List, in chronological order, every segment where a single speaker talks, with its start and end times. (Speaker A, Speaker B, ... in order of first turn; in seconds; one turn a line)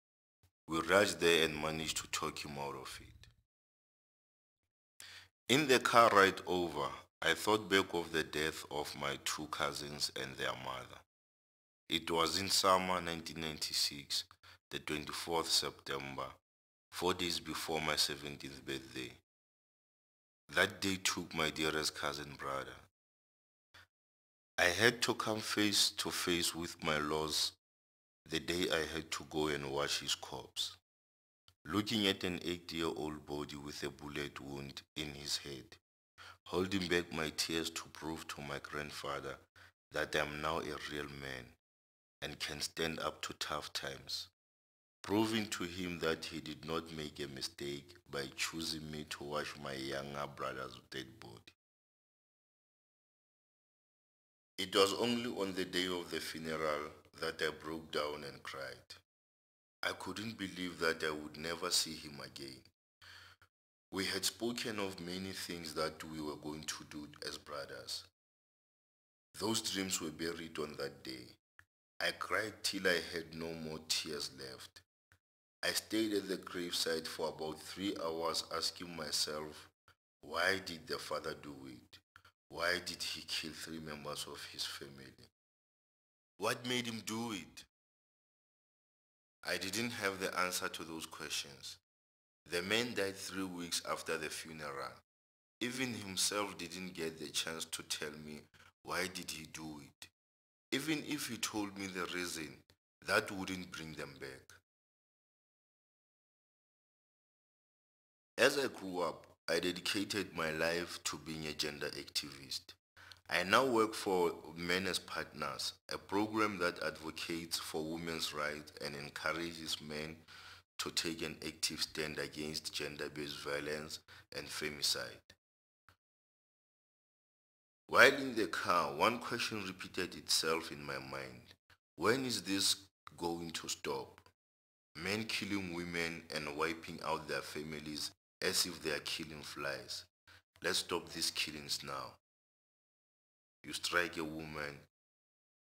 Speaker A: 0.7-3.3
Speaker A: 5.5-11.1
Speaker A: 11.9-16.4
Speaker A: 16.9-19.2
Speaker A: 20.5-22.9
Speaker A: 24.6-27.6
Speaker A: 28.2-30.8
Speaker A: 31.6-35.8
Speaker A: 36.5-41.6
Speaker A: 42.2-44.3
Speaker A: 45.0-51.5
Speaker A: 54.6-59.0
Speaker A: 59.8-62.7
Speaker A: 63.9-68.1
Speaker A: 69.3-71.4
Speaker A: 72.0-74.8
Speaker A: 75.6-85.3
Speaker A: 86.4-87.7
Speaker A: 89.4-91.8
Speaker A: 92.5-95.0
Speaker A: 95.6-100.1
Speaker A: 100.7-104.6
Speaker A: 108.4-112.8
Speaker A: 113.3-120.2
Speaker A: 120.8-125.3
Speaker A: 127.9-134.3
Speaker A: 135.0-140.1
Speaker A: 140.6-142.2
Speaker A: 143.6-144.9